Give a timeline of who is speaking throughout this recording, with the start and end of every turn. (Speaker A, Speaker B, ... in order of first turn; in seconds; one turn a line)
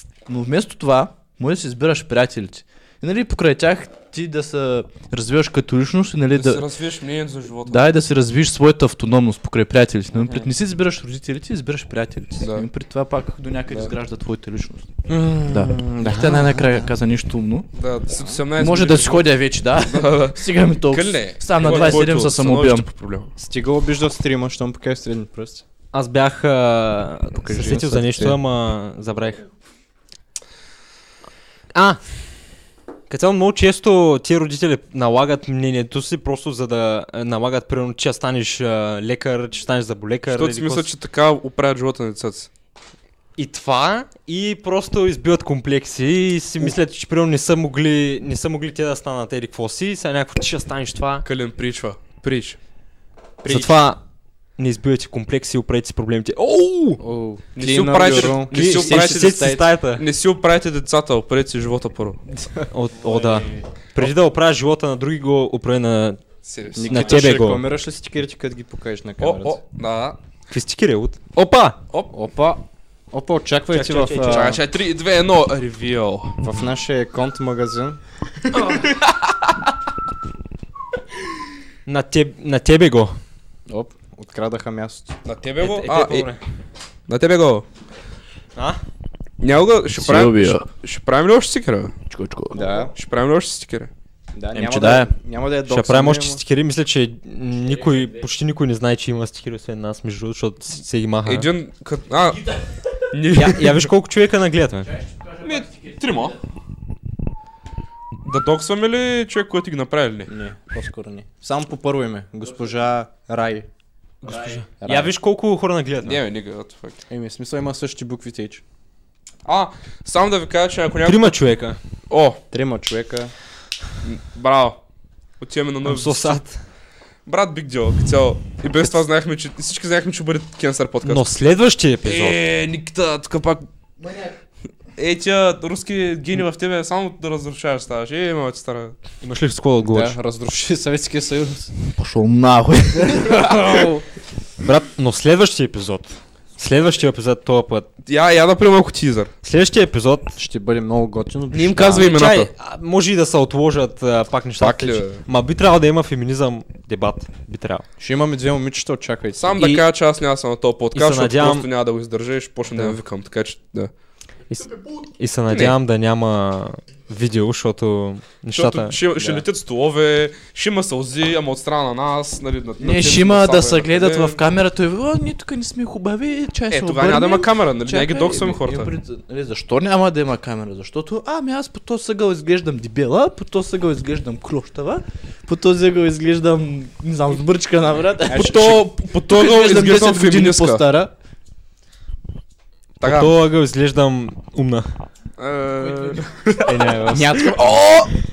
Speaker A: 0.3-6.7
Speaker B: 6.3-7.9
Speaker A: 7.7-14.9
Speaker C: 10.2-10.5
Speaker B: 12.4-12.7
Speaker C: 15.1-16.9
Speaker A: 15.5-17.7
Speaker B: 17.8-23.3
Speaker C: 18.1-18.4
Speaker A: 18.5-22.9
Speaker C: 21.7-22.0
Speaker C: 23.4-25.6
Speaker D: 25.9-29.4
Speaker A: 27.4-28.3
Speaker D: 31.7-32.0
Speaker D: 33.1-40.9
Speaker B: 40.3-42.5
Speaker D: 43.4-51.2
Speaker B: 51.2-52.6
Speaker C: 53.4-53.7
Speaker D: 53.5-54.0
Speaker D: 54.6-57.0
Speaker C: 57.0-59.6
Speaker B: 57.5-62.2
Speaker D: 58.0-60.0
Speaker D: 62.6-66.2
Speaker B: 66.4-67.3
Speaker C: 66.8-69.6
Speaker D: 66.8-67.6
Speaker B: 69.2-70.2
Speaker D: 70.5-71.8
Speaker C: 72.1-74.6
Speaker D: 73.7-74.6
Speaker B: 74.3-76.4
Speaker C: 76.4-78.0
Speaker B: 78.5-79.1
Speaker D: 81.8-83.2
Speaker C: 83.7-85.1
Speaker B: 85.2-86.3
Speaker D: 85.6-86.4
Speaker B: 87.1-87.6
Speaker B: 89.4-91.9
Speaker A: 89.9-90.7
Speaker A: 92.1-92.9
Speaker C: 92.5-92.9
Speaker B: 92.9-93.9
Speaker C: 94.3-96.4
Speaker A: 94.5-95.1
Speaker D: 95.7-101.5
Speaker A: 97.7-98.2
Speaker B: 101.2-102.5
Speaker B: 103.1-103.9
Speaker D: 103.3-104.9
Speaker A: 104.8-106.4
Speaker B: 105.4-106.3
Speaker B: 108.2-110.3
Speaker C: 110.3-113.7
Speaker A: 112.4-112.7
Speaker D: 114.2-116.2
Speaker A: 114.2-114.6
Speaker C: 114.8-115.1
Speaker B: 116.0-117.0
Speaker C: 117.1-118.6
Speaker B: 119.4-121.4
Speaker D: 121.0-121.8
Speaker B: 122.1-122.4
Speaker C: 122.5-123.3
Speaker B: 124.0-124.8
Speaker B: 125.4-126.4
Speaker D: 125.8-126.6
Speaker B: 127.2-131.3
Speaker D: 131.0-132.4
Speaker B: 132.0-133.7
Speaker A: 134.0-134.3
Speaker B: 134.9-138.9
Speaker D: 139.2-140.2
Speaker C: 139.9-141.7
Speaker A: 141.9-143.5
Speaker C: 143.0-144.0
Speaker B: 143.2-143.9
Speaker D: 144.6-147.9
Speaker B: 148.1-149.3
Speaker D: 149.4-150.4
Speaker C: 150.3-152.1
Speaker B: 151.5-152.5
Speaker D: 151.9-157.8
Speaker B: 154.6-155.2
Speaker C: 158.0-159.8
Speaker B: 159.3-163.9
Speaker D: 160.9-161.7
Speaker D: 164.5-169.0
Speaker B: 165.5-165.7
Speaker B: 168.5-174.4
Speaker C: 169.2-169.4
Speaker A: 172.8-191.1
Speaker B: 176.7-178.9
Speaker B: 188.3-190.8
Speaker B: 193.0-193.3
Speaker D: 193.0-194.9
Speaker B: 195.4-196.9
Speaker A: 195.8-196.2
Speaker D: 196.6-197.6
Speaker A: 197.1-197.8
Speaker C: 197.1-197.8
Speaker B: 197.5-198.1